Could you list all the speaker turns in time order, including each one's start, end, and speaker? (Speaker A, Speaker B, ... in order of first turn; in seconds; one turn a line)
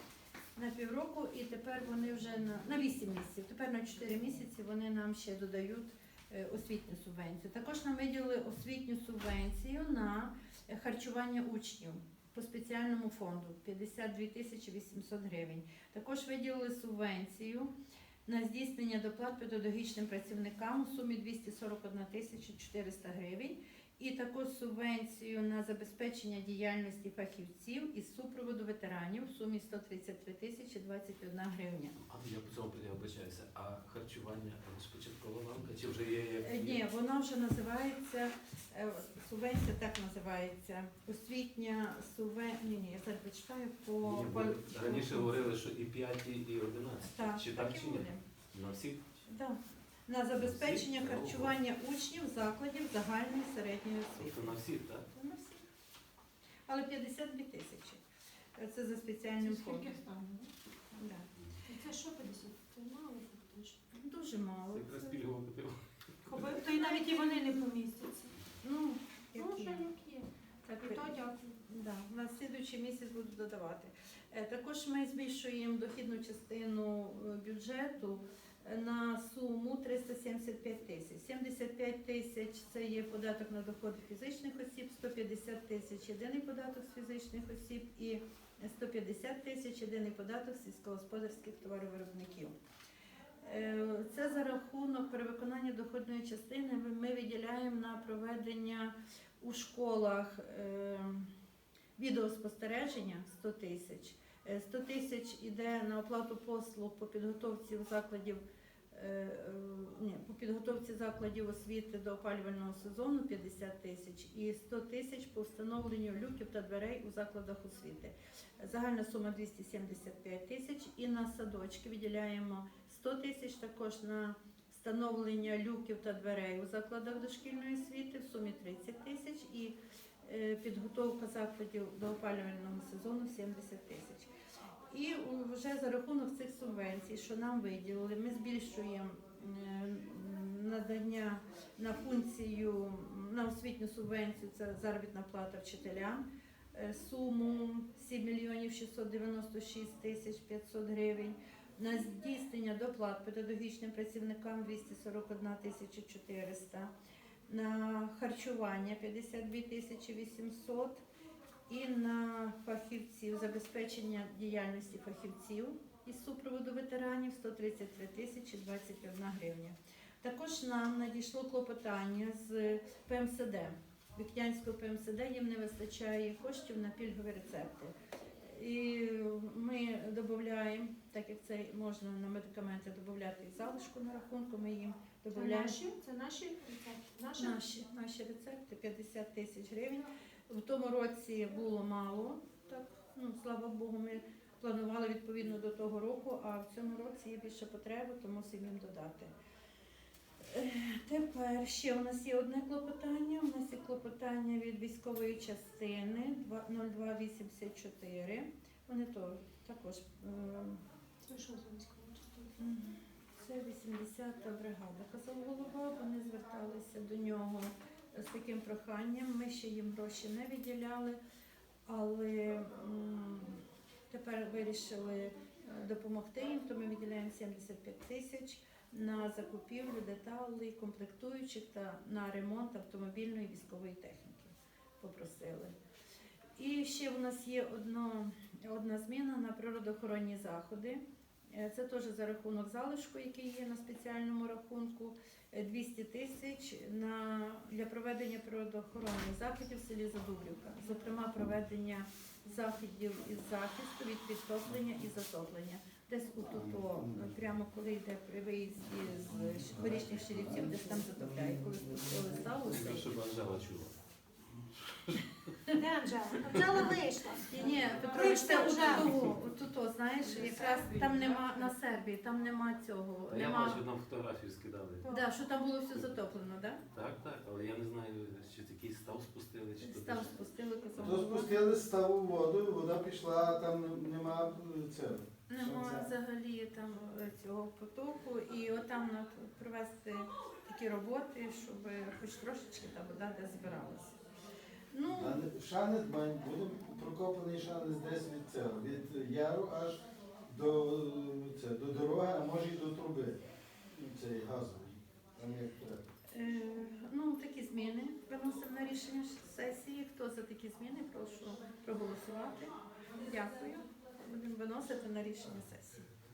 Speaker A: 0.6-17.7
Speaker A: 18.2-32.0
Speaker B: 32.0-36.8
Speaker A: 36.4-45.5
Speaker B: 44.0-49.0
Speaker A: 47.0-48.2
Speaker A: 49.2-54.5
Speaker B: 50.4-51.5
Speaker B: 54.2-55.0
Speaker A: 55.1-55.6
Speaker A: 56.7-58.0
Speaker A: 58.5-59.9
Speaker C: 59.4-60.5
Speaker A: 60.9-61.3
Speaker C: 61.7-63.8
Speaker A: 63.9-65.2
Speaker B: 64.7-66.5
Speaker C: 66.2-68.4
Speaker A: 66.8-67.3
Speaker A: 68.6-69.9
Speaker C: 69.3-70.3
Speaker A: 70.7-71.1
Speaker C: 70.8-71.6
Speaker A: 71.6-92.5
Speaker A: 93.4-101.3
Speaker A: 102.0-108.4
Speaker A: 108.9-134.3
Speaker A: 134.9-156.9
Speaker A: 157.5-161.0
Speaker A: 161.7-185.8
Speaker C: 185.3-187.6
Speaker A: 187.3-199.3
Speaker A: 200.4-210.8
Speaker C: 211.2-212.5
Speaker A: 212.6-221.2
Speaker A: 221.8-235.7
Speaker A: 236.6-241.0
Speaker A: 241.5-263.1
Speaker B: 262.7-263.9
Speaker B: 264.8-265.6
Speaker C: 265.7-269.1
Speaker A: 267.5-273.8
Speaker C: 270.3-271.7
Speaker B: 273.3-275.1
Speaker C: 275.0-275.3
Speaker A: 275.1-276.8
Speaker B: 276.9-280.3
Speaker A: 279.8-281.7
Speaker D: 281.0-286.1
Speaker A: 285.5-294.2
Speaker A: 294.9-295.4
Speaker D: 295.1-303.4
Speaker D: 303.9-306.0
Speaker A: 306.3-312.7
Speaker A: 313.2-316.1